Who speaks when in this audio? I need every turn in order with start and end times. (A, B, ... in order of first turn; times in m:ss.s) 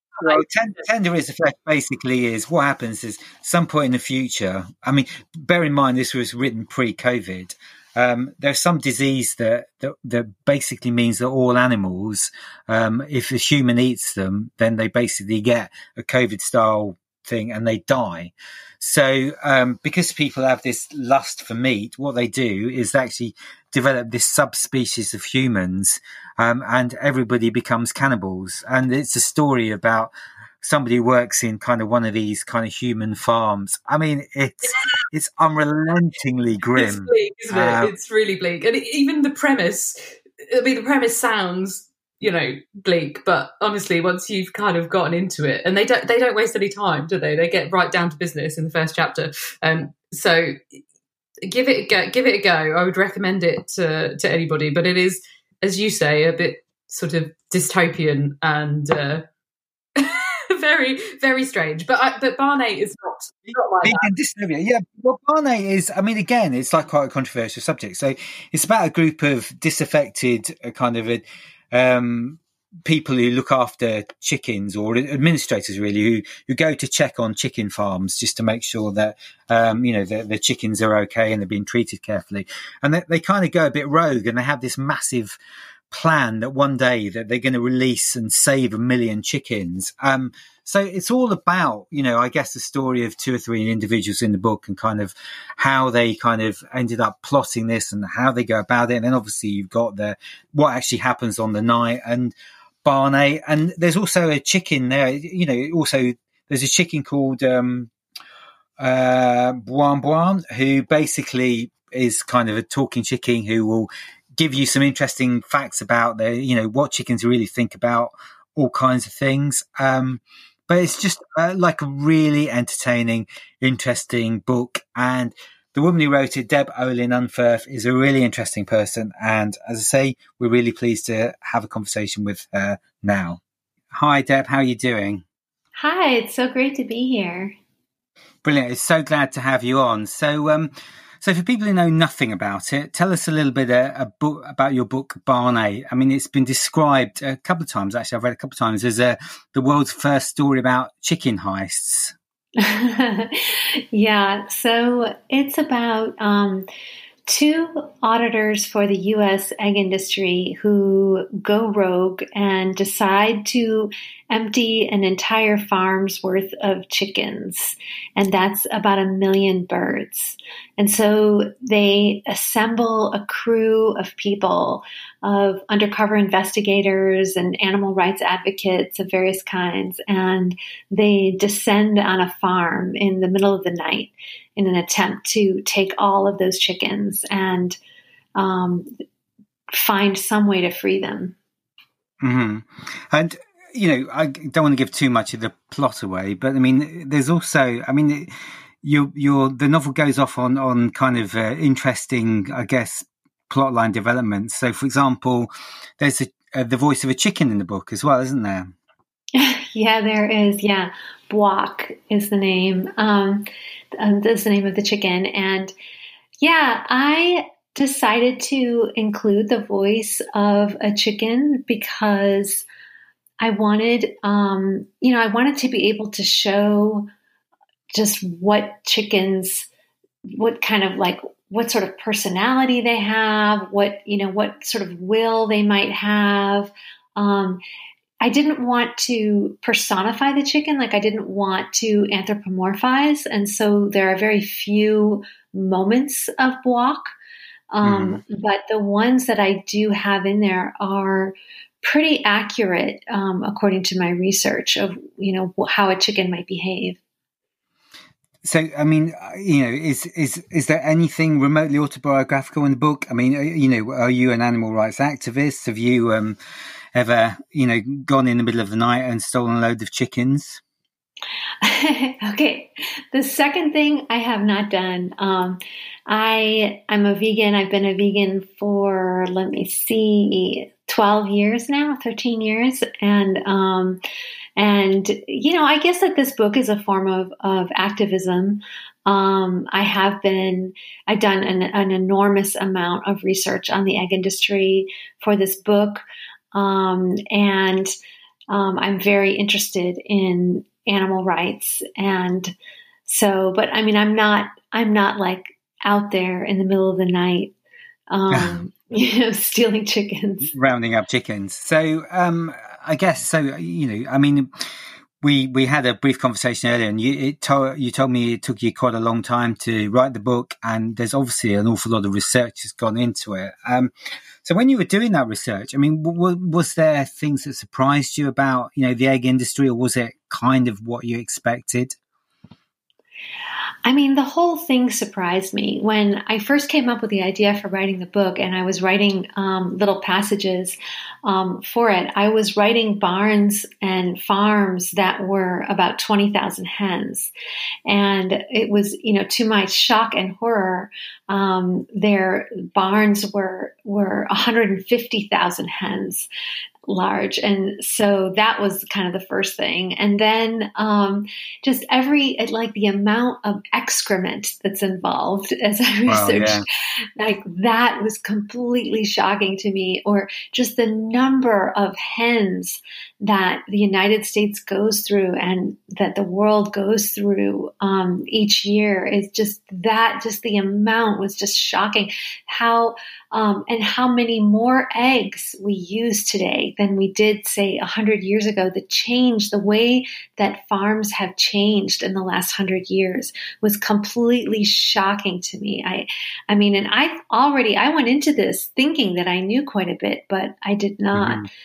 0:00.2-0:37.9 A
0:34.7-0:35.1 B
0:36.8-0:50.6 B
0:51.4-0:59.2 B
1:00.0-1:04.1 B
1:03.8-1:25.4 A
1:25.9-1:47.9 A
1:48.8-2:13.4 A
2:13.9-2:15.2 A
2:15.8-2:17.6 C
2:18.4-2:32.2 A
2:32.6-2:36.7 C
2:37.3-3:07.8 C
3:08.4-3:08.9 C
3:09.7-3:11.4 C
3:12.2-3:28.7 A
3:29.4-3:33.5 C
3:34.0-3:35.7 C
3:36.4-3:42.6 C
3:43.4-3:47.1 C
3:47.9-3:49.7 C
3:50.3-3:57.6 C
3:58.2-4:07.1 C
4:07.7-4:17.0 C
4:07.8-4:08.2 A
4:18.4-4:26.4 A
4:27.0-4:30.6 A
4:31.6-4:44.0 C
4:44.6-4:56.0 C
4:56.5-4:57.9 C
4:58.5-5:02.5 C
5:03.1-5:07.5 C
5:08.1-5:10.5 C
5:08.3-5:08.6 A
5:10.4-5:23.9 A
5:24.4-5:32.0 A
5:33.8-5:47.3 C
5:47.9-5:56.3 C
5:56.9-6:06.6 C
6:06.1-6:06.6 A
6:07.2-6:41.5 C
6:41.1-6:41.5 A